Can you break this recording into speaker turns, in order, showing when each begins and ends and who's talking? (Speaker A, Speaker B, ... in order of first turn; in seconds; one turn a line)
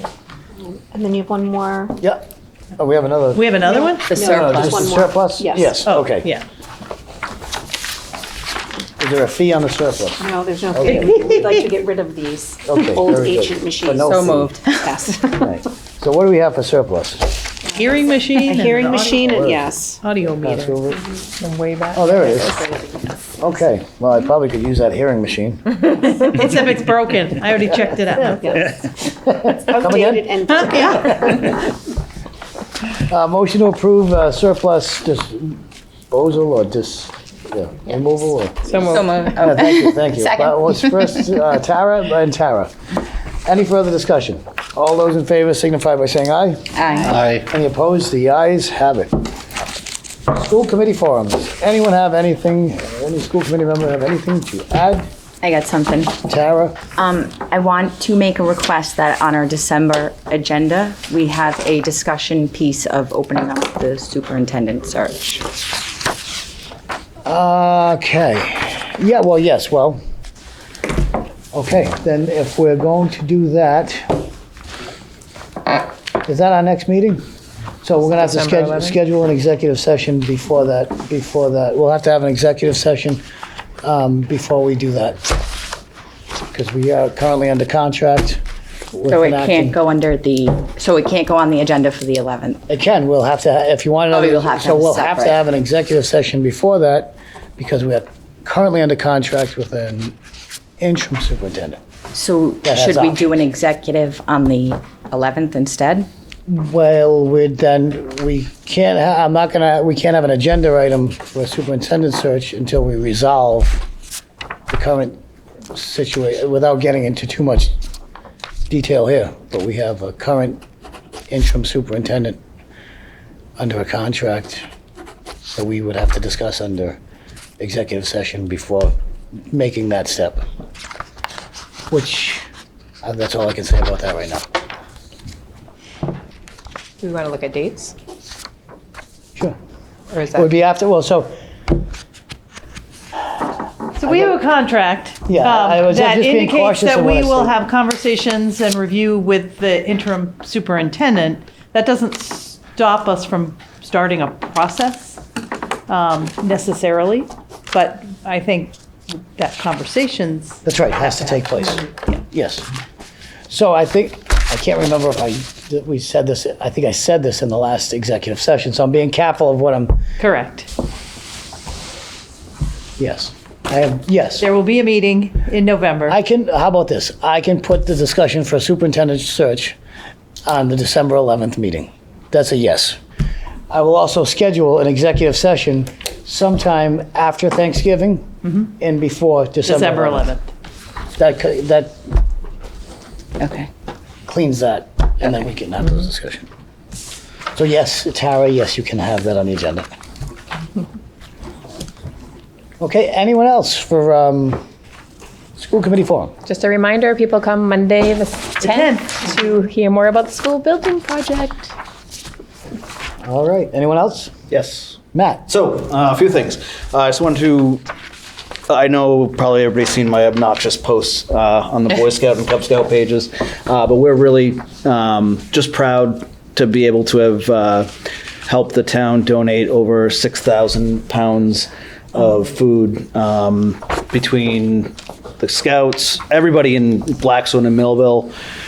Speaker A: 0.6-2.0
Speaker B: 2.0-2.3
Speaker B: 2.8-3.5
Speaker C: 3.3-4.1
Speaker A: 3.6-5.9
Speaker D: 4.1-4.9
Speaker B: 4.2-6.3
Speaker C: 5.8-6.4
Speaker B: 9.0-11.4
Speaker A: 10.2-15.5
Speaker C: 10.9-11.6
Speaker B: 12.7-14.6
Speaker D: 14.0-15.1
Speaker B: 15.4-17.4
Speaker A: 17.7-20.0
Speaker C: 17.7-19.3
Speaker B: 19.2-19.6
Speaker C: 20.0-20.8
Speaker B: 20.4-21.0
Speaker E: 21.4-23.0
Speaker B: 21.9-22.6
Speaker B: 23.4-25.8
Speaker C: 26.0-28.6
Speaker A: 28.3-28.7
Speaker B: 28.8-30.3
Speaker A: 29.7-31.4
Speaker B: 33.1-35.6
Speaker B: 36.1-38.7
Speaker D: 38.7-41.3
Speaker E: 38.9-39.4
Speaker B: 39.4-42.7
Speaker B: 43.5-46.6
Speaker D: 46.7-47.2
Speaker F: 47.1-47.4
Speaker B: 47.3-49.3
Speaker B: 50.3-55.1
Speaker D: 55.4-56.2
Speaker B: 56.2-56.8
Speaker D: 56.9-65.5
Speaker B: 67.3-70.0
Speaker B: 71.5-74.2
Speaker B: 76.2-77.2
Speaker B: 77.8-83.2
Speaker E: 78.0-79.0
Speaker B: 83.8-85.4
Speaker B: 86.5-88.4
Speaker B: 88.9-89.8
Speaker D: 89.1-92.6
Speaker B: 92.7-100.2
Speaker D: 94.1-95.4
Speaker B: 100.8-101.8
Speaker D: 102.1-106.1
Speaker B: 102.6-103.3
Speaker B: 106.5-113.9
Speaker B: 114.7-115.2
Speaker B: 115.7-117.8
Speaker B: 118.7-120.6
Speaker B: 121.3-122.4
Speaker B: 123.6-124.7
Speaker B: 125.5-127.0
Speaker B: 127.6-128.9
Speaker B: 129.5-130.4
Speaker B: 131.9-132.5
Speaker B: 133.0-134.5
Speaker E: 137.0-137.9
Speaker E: 140.1-140.5
Speaker B: 140.3-141.3
Speaker C: 143.9-155.2
Speaker B: 144.1-144.3
Speaker B: 145.3-147.6
Speaker C: 155.9-160.6
Speaker B: 160.7-162.7
Speaker B: 163.5-170.0
Speaker C: 170.2-170.7
Speaker B: 173.0-174.5
Speaker C: 174.4-176.2
Speaker B: 176.1-179.8
Speaker B: 180.5-183.0
Speaker B: 183.7-190.3
Speaker C: 189.7-190.5
Speaker B: 191.2-192.1
Speaker D: 193.4-193.7
Speaker B: 194.3-196.5
Speaker B: 197.5-199.9
Speaker B: 202.8-204.6
Speaker B: 205.6-206.3
Speaker E: 206.5-211.7
Speaker C: 208.6-209.2
Speaker B: 213.2-214.3
Speaker F: 214.5-217.8
Speaker B: 215.1-215.4
Speaker F: 218.7-227.9
Speaker F: 228.5-238.3